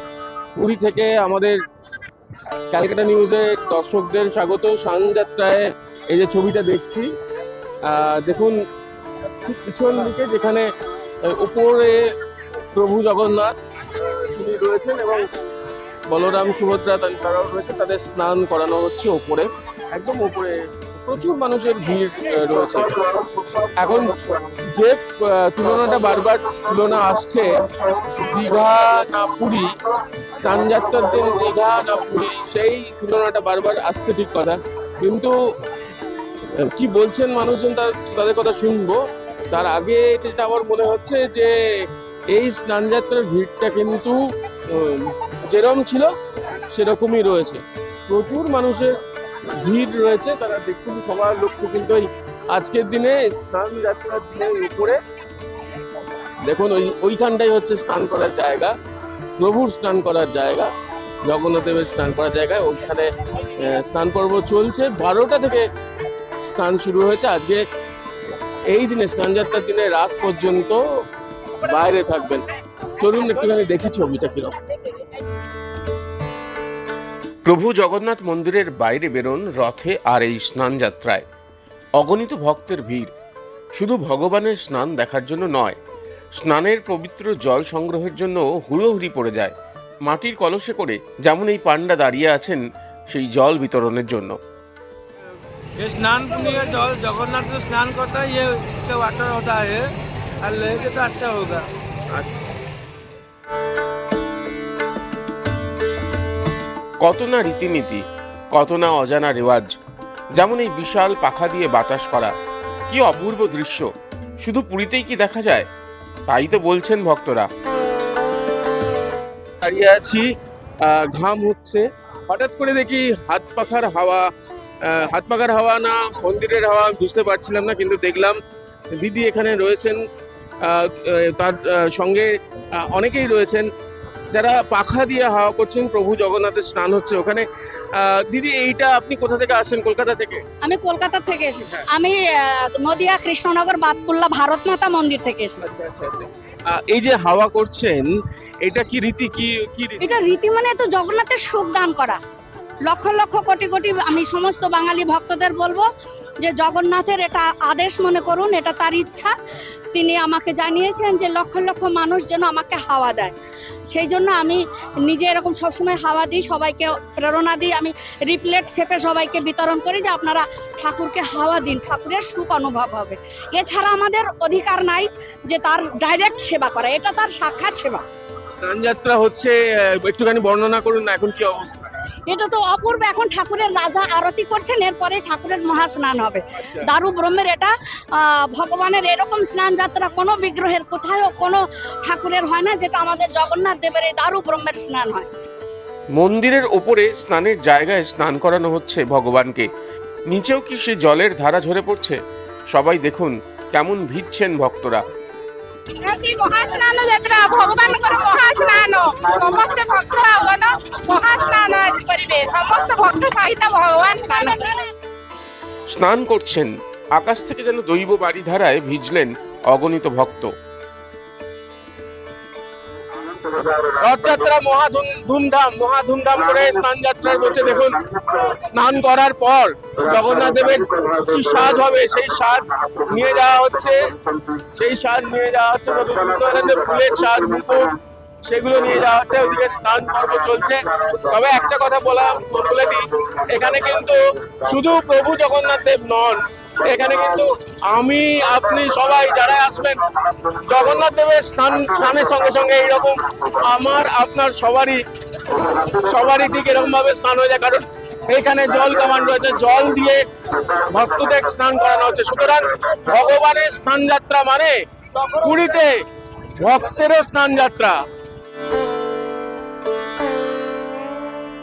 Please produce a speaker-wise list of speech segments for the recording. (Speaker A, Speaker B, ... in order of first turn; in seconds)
Speaker A: 0.6-1.6, 2.7-7.1, 7.8-8.6, 9.4-10.7, 11.2-12.1, 12.7-15.3, 16.1-29.7, 30.3-35.4, 36.6-46.1, 46.7-48.9, 49.5-55.0, 56.4-58.7, 59.4-60.7, 61.2-65.7, 66.5-67.6, 68.7-70.8, 71.6-72.4, 73.0-74.6, 95.8-98.1, 98.8-99.8, 100.4-101.3, 119.6-120.2, 120.8-124.2, 124.8-128.4, 128.9-130.0, 130.6-133.7, 134.3-137.4, 137.9-140.4, 145.6-150.0, 178.5-181.9, 223.6-265.9, 266.6-268.0
Speaker B: 77.5-81.2, 82.0-83.1, 83.7-85.8, 86.3-89.5, 90.0-94.4, 107.0-109.7, 110.3-112.3, 112.9-113.9, 114.4-115.7, 116.3-117.5, 196.1-199.7, 200.3-202.2, 202.7-205.0, 215.9-220.5
Speaker C: 95.8-99.8, 100.6-101.6
Speaker D: 140.6-145.7, 150.0-152.2, 152.8-155.8, 156.4-159.3, 159.9-163.3, 163.9-178.0, 182.3-195.3
Speaker E: 206.0-214.9